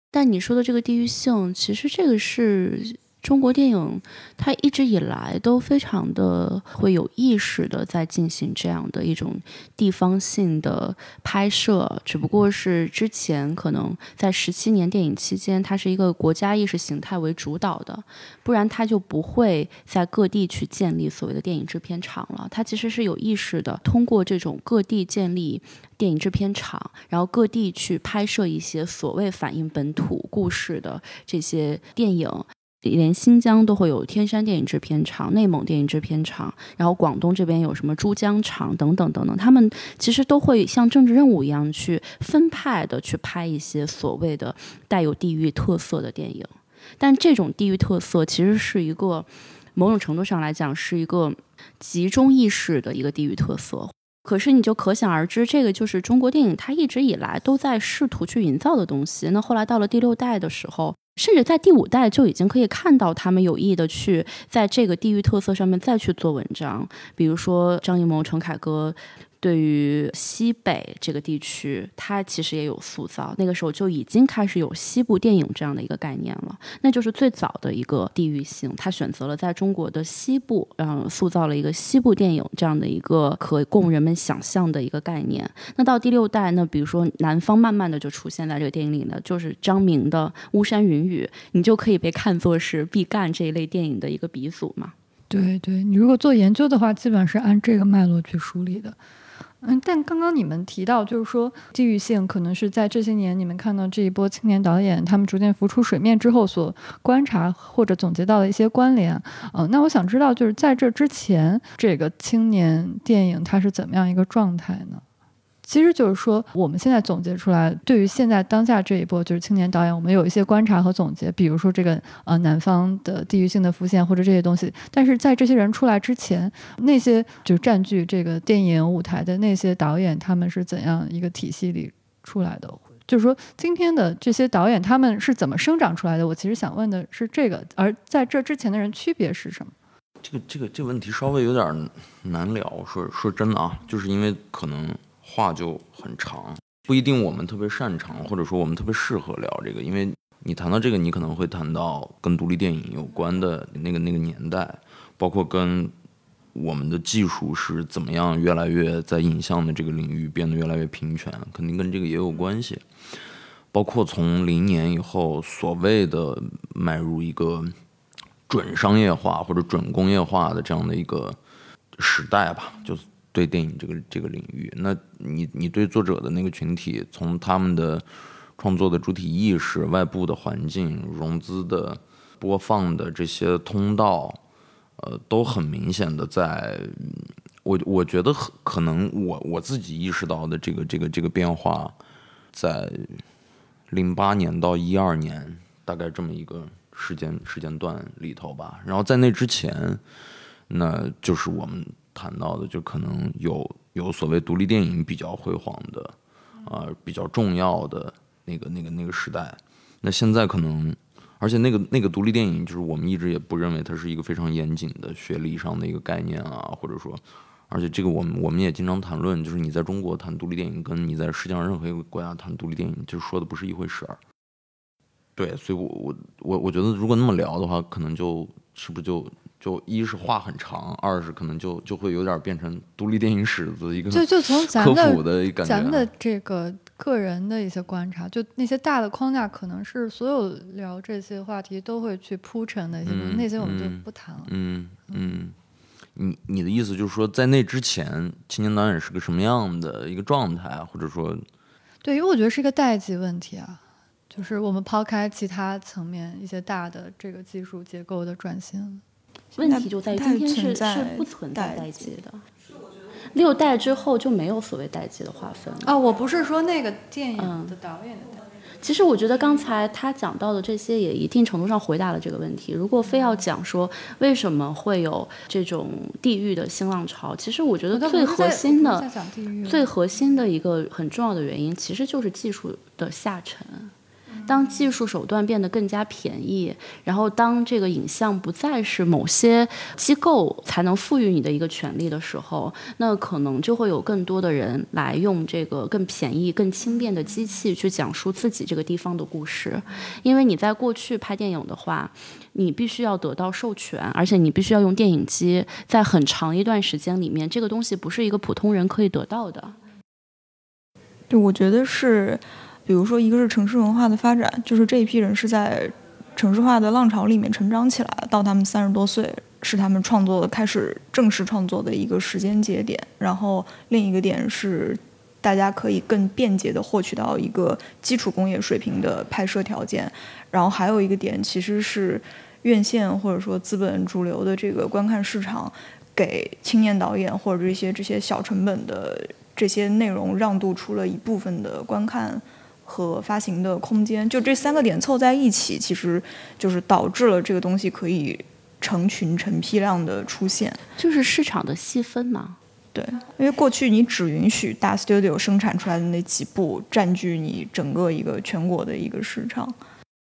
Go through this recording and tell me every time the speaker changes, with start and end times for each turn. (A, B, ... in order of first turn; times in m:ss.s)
0:00.1-1:34.9 A
1:35.3-1:39.0 B
1:39.6-1:55.0 B
1:55.6-2:19.7 B
2:20.2-2:35.9 C
2:36.5-2:42.8 C
2:43.7-2:47.7 C
2:48.5-2:51.4 C
2:52.0-3:04.4 C
3:05.0-3:11.9 C
3:12.5-3:13.2 C
3:13.9-3:20.0 C
3:20.7-3:44.2 C
3:45.4-3:56.1 C
3:54.1-4:04.5 B
4:03.0-4:05.6 C
4:06.1-4:11.4 C
4:12.0-4:13.8 B
4:14.3-4:19.0 B
4:19.5-4:22.4 A
4:19.6-4:22.1 D
4:23.3-4:25.9 A
4:25.8-4:28.3 B
4:27.4-4:27.8 A
4:28.8-4:39.1 A
4:37.9-4:39.9 B
4:39.7-4:43.9 A
4:44.4-5:09.8 A
5:11.3-5:50.8 D
5:51.0-5:52.6 A
5:52.9-5:59.7 D